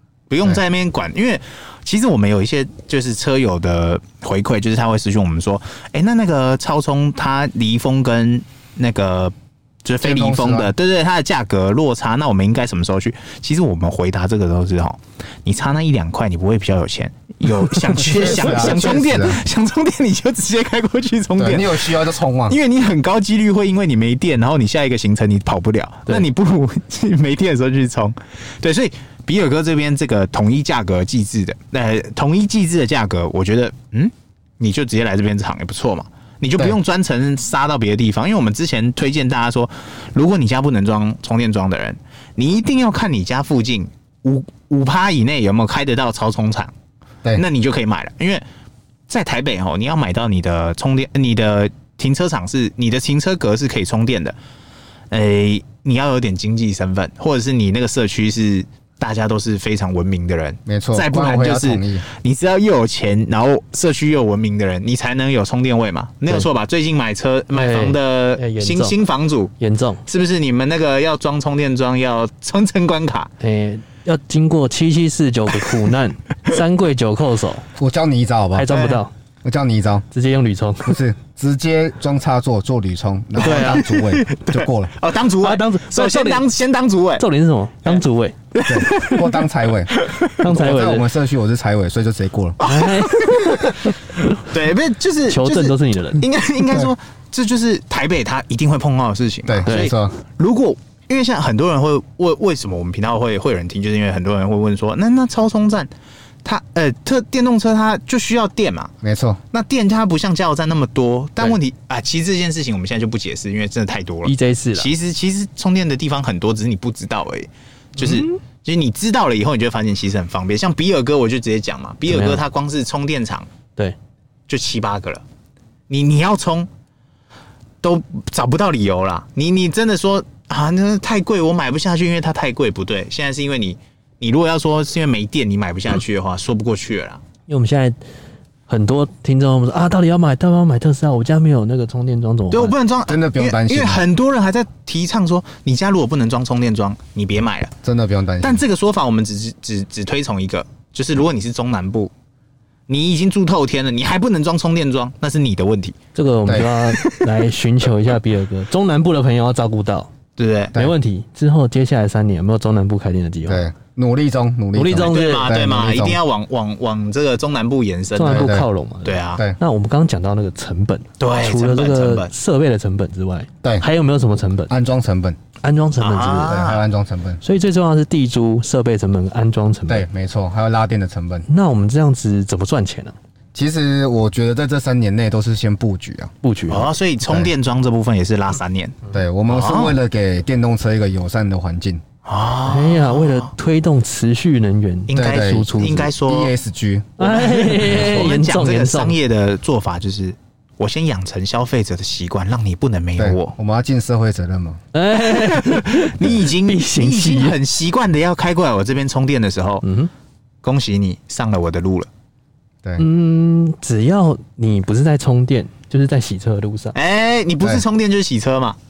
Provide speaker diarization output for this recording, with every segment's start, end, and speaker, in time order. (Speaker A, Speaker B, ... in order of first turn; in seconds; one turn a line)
Speaker A: 0.3-46.7
Speaker B: 10.0-10.7
Speaker B: 18.0-19.4
Speaker B: 21.4-22.6
Speaker A: 47.4-48.4
Speaker A: 49.1-54.4
Speaker A: 55.1-69.5
Speaker B: 60.7-62.0
Speaker C: 67.5-69.0
Speaker C: 69.6-70.0
Speaker A: 70.1-73.3
Speaker C: 73.4-77.7
Speaker B: 77.8-78.7
Speaker C: 78.5-79.1
Speaker A: 78.7-79.0
Speaker B: 79.4-80.0
Speaker C: 80.1-81.0
Speaker B: 80.9-84.9
Speaker C: 83.4-83.9
Speaker A: 83.4-87.2
Speaker C: 85.4-86.5
Speaker C: 87.2-88.4
Speaker A: 88.5-90.4
Speaker B: 88.7-92.6
Speaker C: 90.4-91.1
Speaker A: 92.6-93.8
Speaker C: 92.6-94.4
Speaker A: 94.3-105.9
Speaker C: 95.3-96.2
Speaker B: 99.5-100.2
Speaker C: 99.7-99.9
Speaker A: 106.4-108.9
Speaker B: 109.0-109.4
Speaker A: 109.5-123.5
Speaker C: 114.2-114.9
Speaker C: 118.0-118.4
Speaker C: 122.1-122.4
Speaker A: 124.5-125.2
Speaker A: 125.9-126.7
Speaker A: 127.8-137.2
Speaker C: 137.5-138.0
Speaker C: 138.7-142.8
Speaker A: 142.5-147.7
Speaker B: 143.1-144.0
Speaker B: 147.8-148.6
Speaker A: 148.4-152.1
Speaker A: 152.9-156.0
Speaker C: 156.2-160.1
Speaker A: 157.0-157.3
Speaker A: 160.4-160.8
Speaker C: 160.7-163.7
Speaker B: 163.5-166.2
Speaker C: 164.7-165.5
Speaker A: 165.0-168.5
Speaker C: 168.2-174.7
Speaker B: 168.3-168.7
Speaker A: 169.1-169.4
Speaker A: 171.2-172.3
Speaker B: 174.7-175.4
Speaker C: 175.6-176.6
Speaker A: 176.0-176.8
Speaker B: 176.4-177.4
Speaker C: 177.4-180.1
Speaker B: 179.9-181.5
Speaker C: 181.5-183.2
Speaker B: 183.5-186.3
Speaker C: 186.4-186.9
Speaker A: 186.7-190.0
Speaker B: 187.3-187.5
Speaker B: 189.1-192.0
Speaker A: 192.2-193.5
Speaker C: 192.7-196.1
Speaker A: 195.1-196.5
Speaker B: 195.1-197.1
Speaker C: 197.2-199.2
Speaker A: 197.2-203.5
Speaker B: 203.2-204.8
Speaker C: 204.9-207.6
Speaker A: 205.2-209.8
Speaker C: 209.8-210.1
Speaker A: 210.6-212.1
Speaker C: 213.0-216.9
Speaker A: 216.9-218.8